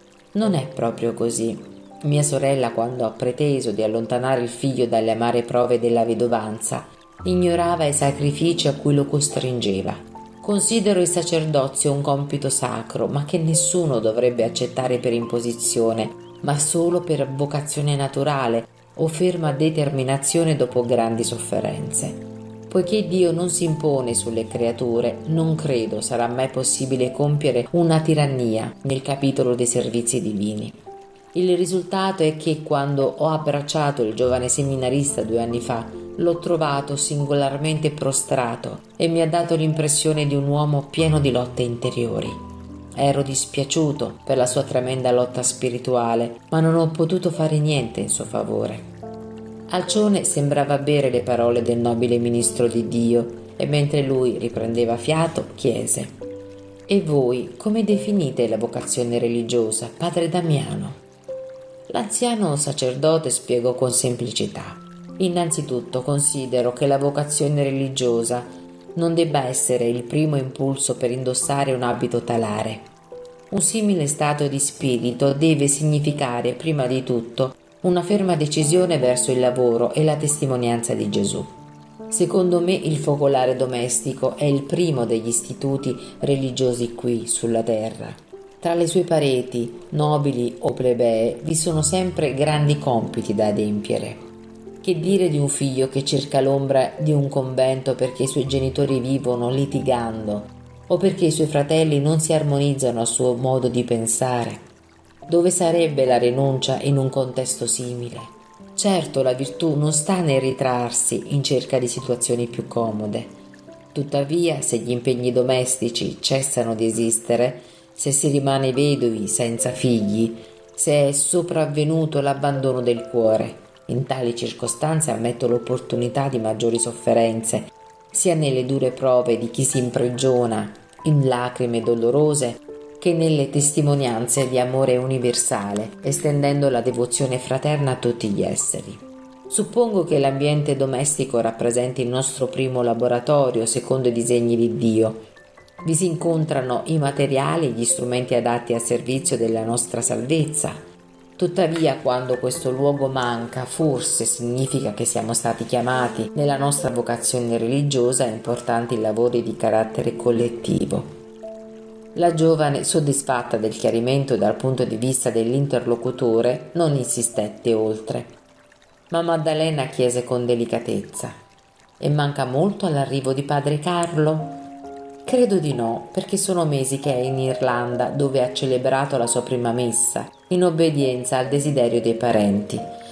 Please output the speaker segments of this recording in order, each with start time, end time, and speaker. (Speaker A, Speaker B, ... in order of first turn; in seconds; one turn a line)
Speaker A: 0.3-30.8
Speaker A: 31.3-42.4
Speaker A: 43.0-48.8
Speaker A: 49.7-56.1
Speaker A: 56.9-61.0
Speaker A: 61.9-72.9
Speaker A: 73.5-81.5
Speaker A: 82.1-94.2
Speaker A: 94.8-104.6
Speaker A: 105.3-113.3
Speaker A: 113.9-145.2
Speaker A: 145.8-150.8
Speaker A: 151.4-161.1
Speaker A: 162.1-168.3
Speaker A: 169.1-171.3
Speaker A: 172.0-174.6
Speaker A: 175.2-182.9